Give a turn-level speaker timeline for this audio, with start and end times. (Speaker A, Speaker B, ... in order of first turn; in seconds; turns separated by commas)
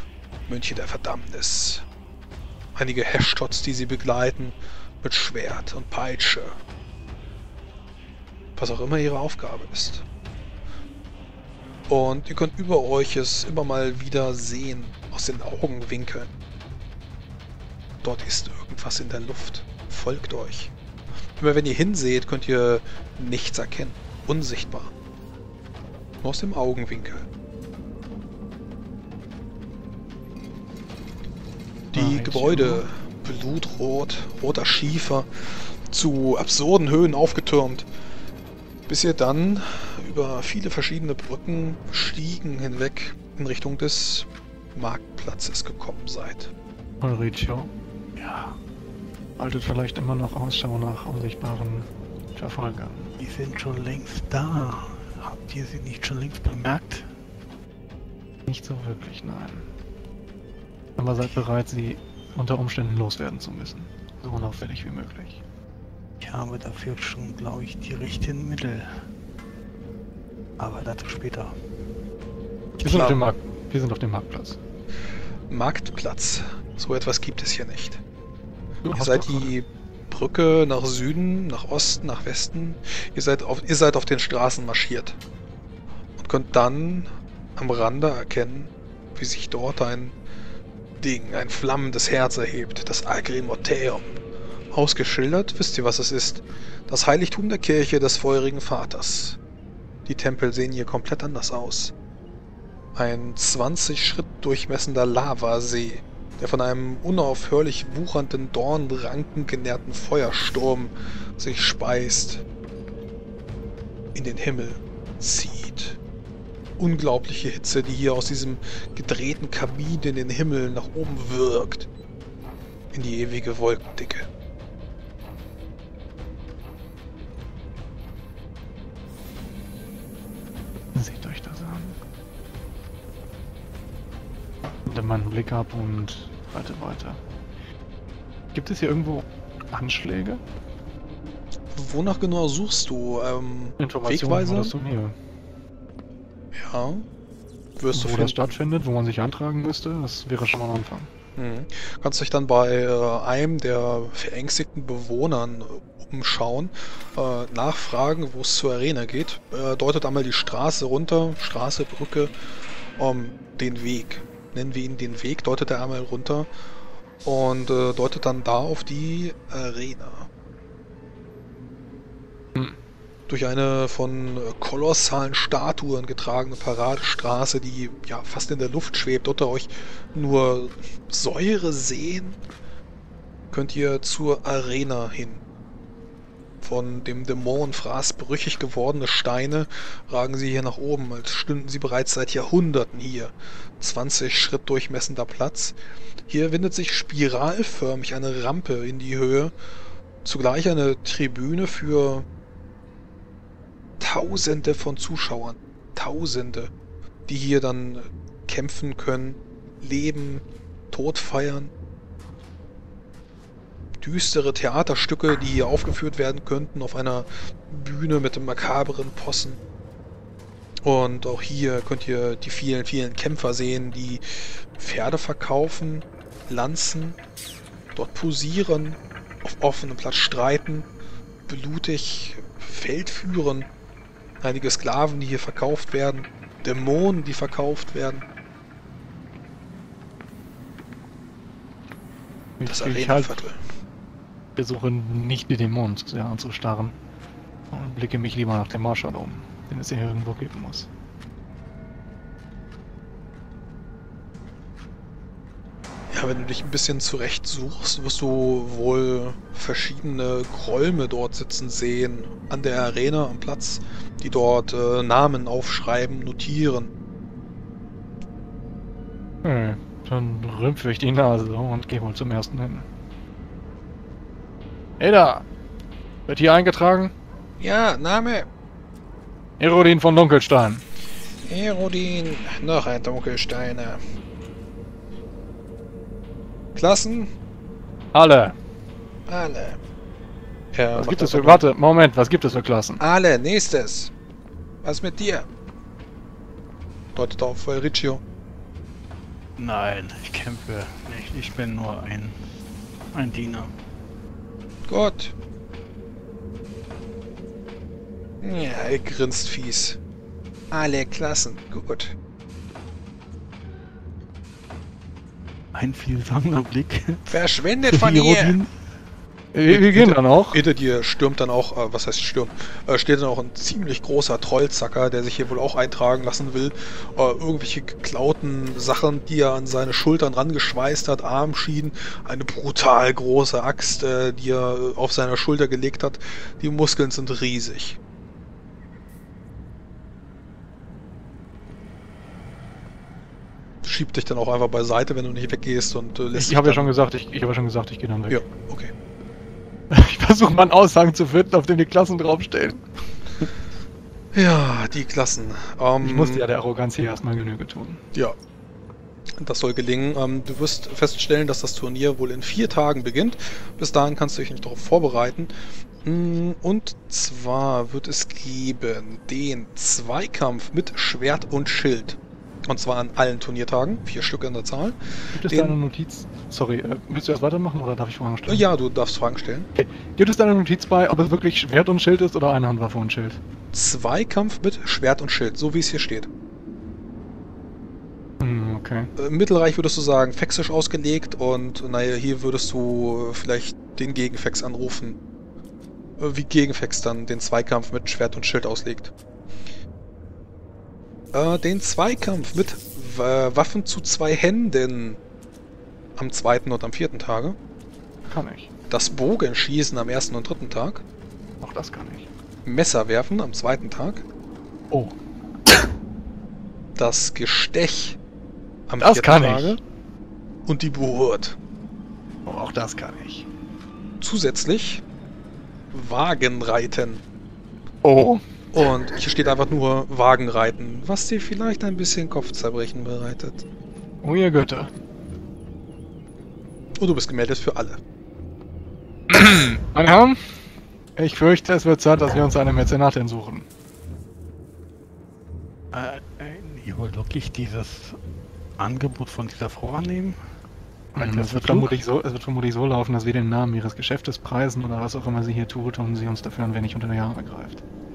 Speaker A: 0.5-1.9, Speaker A: 2.8-6.6, Speaker A: 8.6-10.0, Speaker A: 11.9-16.3, Speaker A: 18.0-20.7, Speaker A: 21.4-24.9, Speaker A: 26.2-27.3, Speaker A: 31.9-37.9, Speaker B: 31.9-32.8, Speaker A: 38.9-46.5, Speaker B: 47.0-47.7, Speaker C: 48.2-48.6, Speaker B: 49.4-53.1, Speaker C: 53.2-57.1, Speaker B: 58.5-59.6, Speaker B: 61.0-65.4, Speaker C: 66.2-68.9, Speaker C: 70.6-71.5, Speaker B: 72.8-74.6, Speaker A: 72.8-73.2, Speaker A: 75.5-78.0, Speaker B: 78.8-79.5, Speaker A: 79.0-85.2, Speaker A: 86.2-90.1, Speaker A: 91.0-94.2, Speaker A: 94.7-99.4, Speaker A: 100.1-101.9, Speaker A: 103.0-112.4, Speaker A: 114.2-116.0, Speaker A: 116.8-121.9, Speaker A: 122.9-124.3, Speaker B: 130.9-132.0, Speaker B: 134.9-137.2, Speaker B: 138.5-140.4, Speaker A: 141.7-144.7, Speaker B: 143.8-145.2, Speaker A: 146.6-147.1, Speaker A: 147.8-148.5, Speaker B: 147.9-151.1, Speaker A: 151.4-162.3, Speaker A: 163.0-166.5, Speaker A: 167.2-170.3, Speaker A: 173.3-182.4, Speaker A: 183.5-185.4, Speaker A: 186.6-195.8, Speaker A: 196.3-199.5, Speaker A: 200.2-202.2, Speaker A: 204.0-206.7, Speaker A: 207.3-211.7, Speaker A: 214.0-219.6, Speaker A: 220.8-227.2, Speaker A: 227.9-230.9, Speaker A: 231.5-233.7, Speaker A: 234.4-238.2, Speaker B: 242.6-243.4, Speaker A: 242.7-243.6, Speaker B: 244.6-246.9, Speaker B: 247.7-250.9, Speaker A: 256.1-266.9, Speaker B: 269.4-272.9, Speaker B: 275.0-275.4, Speaker B: 276.3-277.1, Speaker A: 277.6-278.5, Speaker B: 279.6-280.8, Speaker A: 281.4-284.0, Speaker A: 286.8-287.3, Speaker B: 288.1-288.6, Speaker A: 289.3-289.8, Speaker A: 290.7-291.6, Speaker B: 290.9-293.0, Speaker A: 293.0-294.1, Speaker A: 294.8-295.5, Speaker A: 297.1-298.2, Speaker C: 299.6-302.4, Speaker C: 303.1-303.7, Speaker A: 304.9-305.3, Speaker A: 308.4-310.0, Speaker A: 310.7-312.1, Speaker C: 315.7-317.4, Speaker A: 317.3-318.6, Speaker C: 317.9-318.7, Speaker B: 319.5-320.6, Speaker A: 319.7-338.0, Speaker A: 343.8-346.9, Speaker B: 346.4-348.4, Speaker A: 348.3-348.9, Speaker B: 349.9-352.8, Speaker A: 354.3-356.4, Speaker B: 356.0-358.0, Speaker A: 359.4-365.5, Speaker A: 366.0-375.8, Speaker B: 375.3-378.6, Speaker A: 378.5-379.7, Speaker B: 379.8-383.4, Speaker A: 383.7-386.3, Speaker B: 388.4-389.1, Speaker A: 389.2-395.2, Speaker A: 396.2-399.1, Speaker A: 401.3-405.2, Speaker A: 406.2-407.6, Speaker B: 408.3-408.7, Speaker A: 408.9-411.0, Speaker B: 411.6-412.3, Speaker A: 412.6-414.2, Speaker B: 414.9-415.1, Speaker A: 417.0-418.2, Speaker A: 418.9-419.8, Speaker B: 419.0-419.8, Speaker A: 420.7-421.6, Speaker B: 422.5-423.5, Speaker A: 424.2-425.0, Speaker A: 425.9-427.2, Speaker B: 428.0-428.4, Speaker A: 428.7-433.6, Speaker B: 434.2-434.9, Speaker A: 437.0-438.0, Speaker B: 439.3-440.4, Speaker B: 441.2-443.7, Speaker C: 445.9-448.2, Speaker C: 448.8-450.4, Speaker B: 451.1-457.8, Speaker C: 451.2-451.9